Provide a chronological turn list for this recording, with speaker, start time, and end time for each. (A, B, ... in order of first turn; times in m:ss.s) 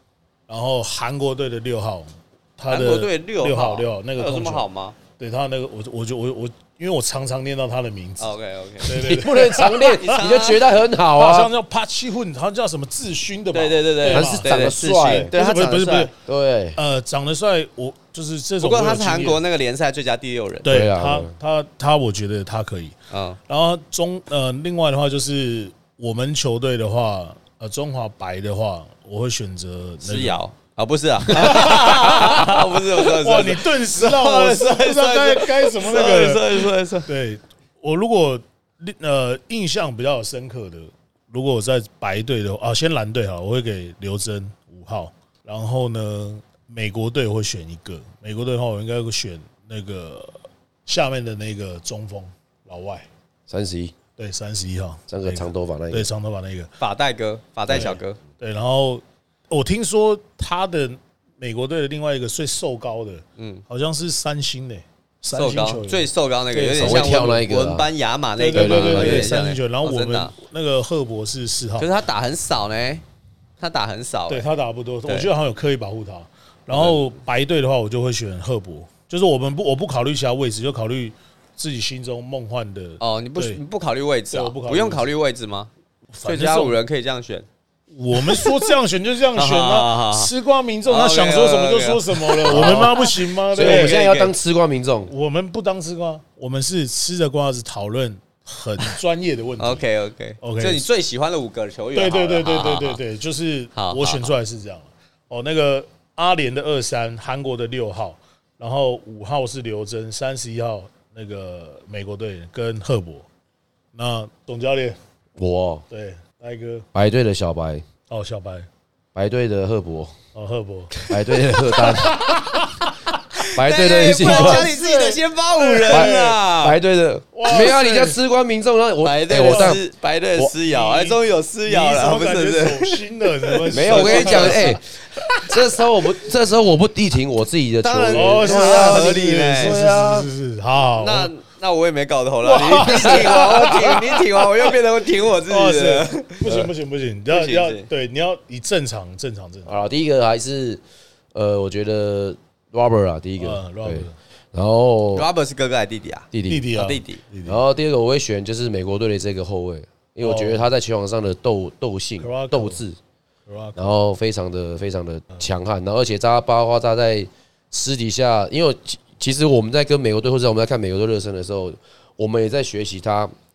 0:00.5-0:04.7 A
0:02.7-0:05.0 B
0:05.2-0:10.2 A
0:08.2-0:09.1 B
0:08.8-0:11.5 C
0:09.7-0:10.6 B
0:11.1-0:16.2 A
0:13.5-0:16.1 B
0:14.1-0:16.8 C
0:16.8-0:19.4 A
0:18.6-0:20.7 B
0:20.6-0:22.9 A
0:20.6-0:21.4 C
0:23.1-0:23.4 B
0:23.5-0:30.4 A
0:30.0-0:37.1 B
0:31.3-0:53.1 A
0:53.5-0:54.0 C
0:54.2-0:56.7 A
0:55.1-0:56.1 C
0:56.8-0:58.2 B
0:57.7-1:07.4 A
1:03.4-1:03.6 B
1:05.3-1:10.3 B
1:06.8-1:07.9 C
1:08.4-1:11.9 A
1:08.5-1:09.3 C
1:11.8-1:13.0 B
1:13.6-1:14.5 B
1:14.3-1:23.6 A
1:15.0-1:15.3 B
1:16.7-1:17.1 B
1:23.0-1:25.7 B
1:24.3-1:25.1 A
1:26.1-1:26.8 A
1:26.2-1:27.5 B
1:27.9-1:34.0 A
1:28.2-1:28.7 B
1:29.3-1:30.3 B
1:30.9-1:34.3 B
1:32.5-1:33.0 C
1:33.5-1:35.1 C
1:35.1-1:39.9 A
1:39.6-1:43.0 B
1:40.4-1:40.9 A
1:41.9-1:53.3 A
1:43.7-1:44.3 B
1:53.9-1:55.0 A
1:55.4-1:55.8 C
1:55.9-1:56.9 A
1:56.9-1:57.9 C
1:58.1-1:58.7 A
1:59.2-2:00.2 C
2:00.4-2:01.0 A
2:01.0-2:06.8 B
2:01.1-2:02.2 C
2:03.6-2:04.7 C
2:04.2-2:06.4 A
2:05.9-2:09.8 C
2:07.3-2:08.1 A
2:07.5-2:08.1 B
2:09.0-2:15.5 B
2:09.4-2:09.8 A
2:10.6-2:14.8 A
2:13.7-2:14.8 C
2:15.4-2:20.3 C
2:17.8-2:19.8 B
2:18.1-2:21.3 A
2:21.0-2:26.4 B
2:22.4-2:24.8 A
2:25.5-2:29.7 A
2:26.4-2:26.7 C
2:27.3-2:27.9 B
2:29.7-2:30.8 C
2:31.3-2:35.3 C
2:33.4-2:34.2 A
2:35.1-2:37.2 B
2:36.3-2:36.7 C
2:36.4-2:37.6 A
2:37.4-2:43.0 C
2:40.2-2:40.7 A
2:42.2-2:42.8 A
2:43.5-2:43.8 A
2:43.8-2:53.3 C